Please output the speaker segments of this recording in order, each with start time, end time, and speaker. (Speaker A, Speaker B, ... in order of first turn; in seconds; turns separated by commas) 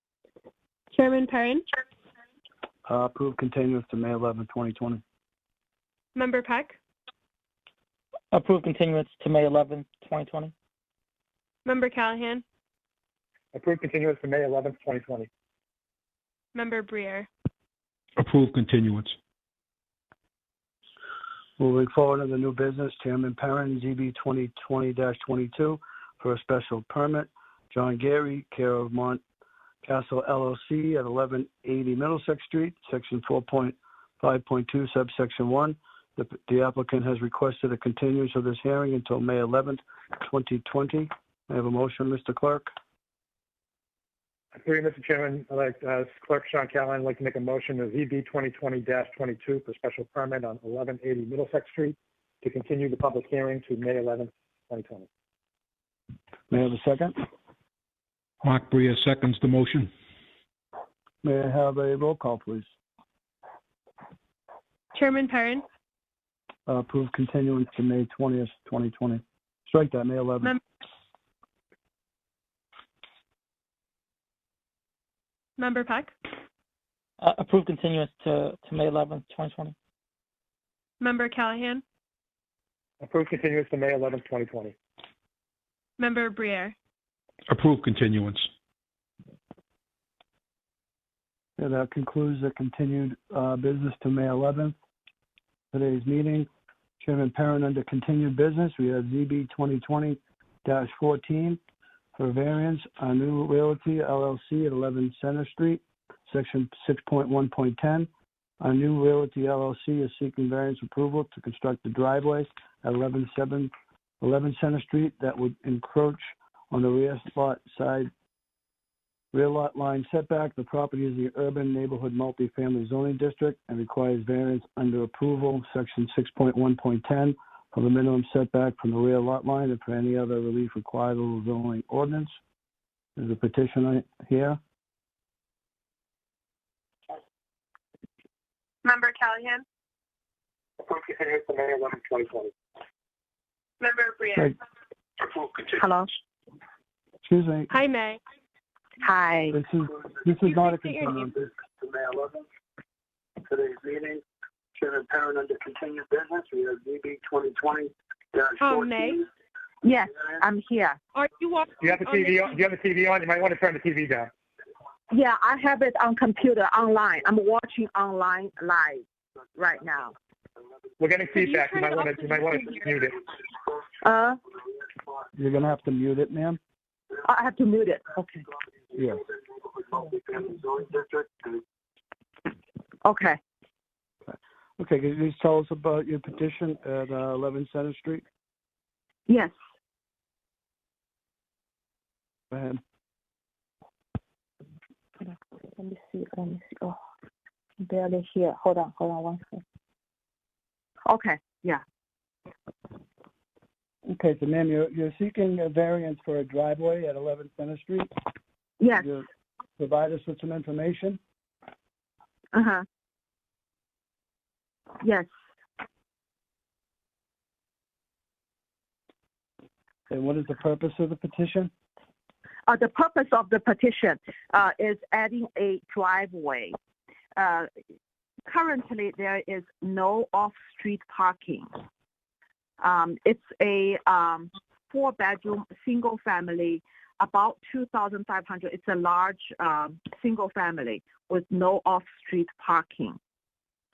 Speaker A: 0.9-1.7, Speaker B: 2.9-5.0, Speaker A: 6.2-6.8, Speaker C: 8.3-10.5, Speaker A: 11.7-12.4, Speaker D: 13.5-15.3, Speaker A: 16.6-17.3, Speaker E: 18.2-19.1, Speaker B: 21.6-29.2, Speaker B: 29.8-42.7, Speaker D: 44.6-55.1, Speaker B: 56.5-57.2, Speaker E: 58.4-59.9, Speaker B: 61.2-62.7, Speaker A: 64.9-65.6, Speaker B: 66.7-70.6, Speaker A: 75.6-76.1, Speaker C: 77.2-79.8, Speaker A: 81.0-81.8, Speaker D: 83.0-84.8, Speaker A: 86.0-86.8, Speaker E: 87.5-88.5, Speaker B: 91.6-94.8, Speaker B: 95.7-96.5, Speaker B: 97.0-101.6, Speaker B: 102.2-108.1, Speaker B: 108.6-118.1, Speaker B: 119.3-132.4, Speaker B: 133.2-134.6, Speaker A: 138.8-139.6, Speaker D: 140.8-142.5, Speaker A: 143.8-144.5, Speaker F: 145.7-146.1, Speaker B: 147.2-147.7, Speaker A: 147.7-148.2, Speaker F: 149.0-149.6, Speaker B: 149.5-152.4, Speaker A: 150.4-151.3, Speaker B: 155.1-157.2, Speaker A: 158.6-159.2, Speaker F: 159.8-161.0, Speaker A: 161.2-162.6, Speaker D: 161.8-164.3, Speaker F: 165.1-169.0, Speaker F: 169.6-170.2, Speaker D: 171.0-173.2, Speaker A: 171.3-172.9, Speaker F: 174.0-174.4, Speaker B: 175.3-176.6, Speaker F: 177.2-178.5, Speaker B: 178.9-179.3, Speaker B: 180.7-181.3, Speaker F: 183.0-183.4, Speaker B: 184.2-188.2, Speaker B: 192.5-192.8, Speaker F: 195.2-197.0, Speaker F: 197.8-199.6, Speaker F: 201.1-201.8, Speaker B: 204.1-208.1, Speaker F: 208.8-209.1, Speaker B: 209.0-209.2, Speaker B: 209.8-211.2, Speaker F: 212.5-212.8, Speaker F: 215.0-215.3, Speaker B: 220.1-221.7, Speaker F: 222.7-226.7, Speaker F: 227.4-227.7, Speaker F: 228.5-231.7, Speaker F: 232.8-243.2